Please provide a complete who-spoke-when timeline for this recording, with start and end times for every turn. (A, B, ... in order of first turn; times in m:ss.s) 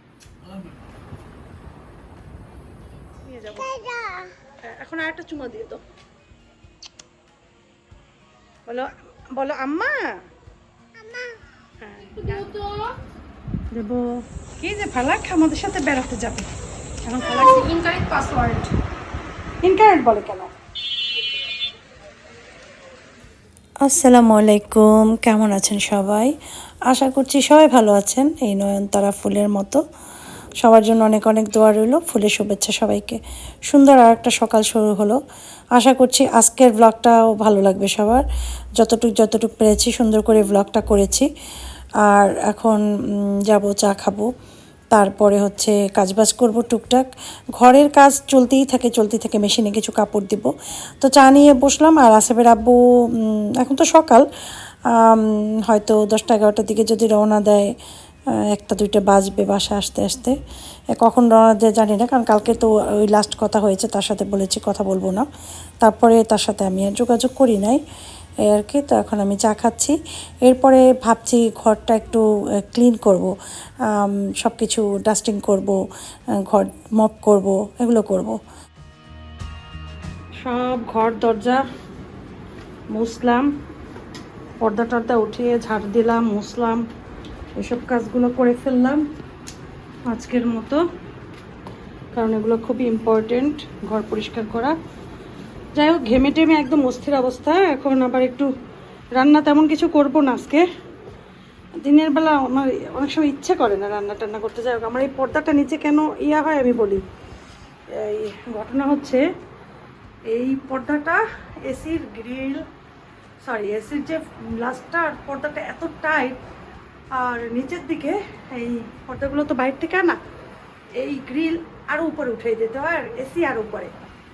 0:03.2-0:04.0 A
0:04.6-0:05.8 A
0:08.7-0:10.0 A
0:11.8-0:12.5 A
0:12.0-0:12.7 B
0:13.7-0:14.0 A
0:14.6-0:16.5 A
0:17.0-0:17.7 A
0:17.2-0:18.7 B
0:19.6-0:20.5 A
0:23.8-0:26.3 C
0:26.9-0:29.8 C
0:30.6-0:35.2 C
0:35.8-0:38.2 C
0:38.8-0:41.3 C
0:42.0-0:44.3 C
0:44.9-0:47.0 C
0:47.6-0:54.2 C
0:54.9-0:57.7 C
0:58.4-1:00.4 C
1:00.9-1:05.3 C
1:05.8-1:07.8 C
1:08.5-1:13.3 C
1:13.9-1:15.8 C
1:16.4-1:18.4 C
1:20.4-1:21.6 A
1:22.9-1:23.5 A
1:24.6-1:26.8 A
1:27.6-1:29.0 A
1:30.1-1:30.8 A
1:32.1-1:34.7 A
1:35.8-1:38.5 A
1:39.2-1:40.6 A
1:41.8-1:47.0 A
1:48.0-1:49.2 A
1:50.3-1:52.6 A
1:53.4-1:56.4 A
1:57.2-2:00.2 A
2:01.0-2:03.9 A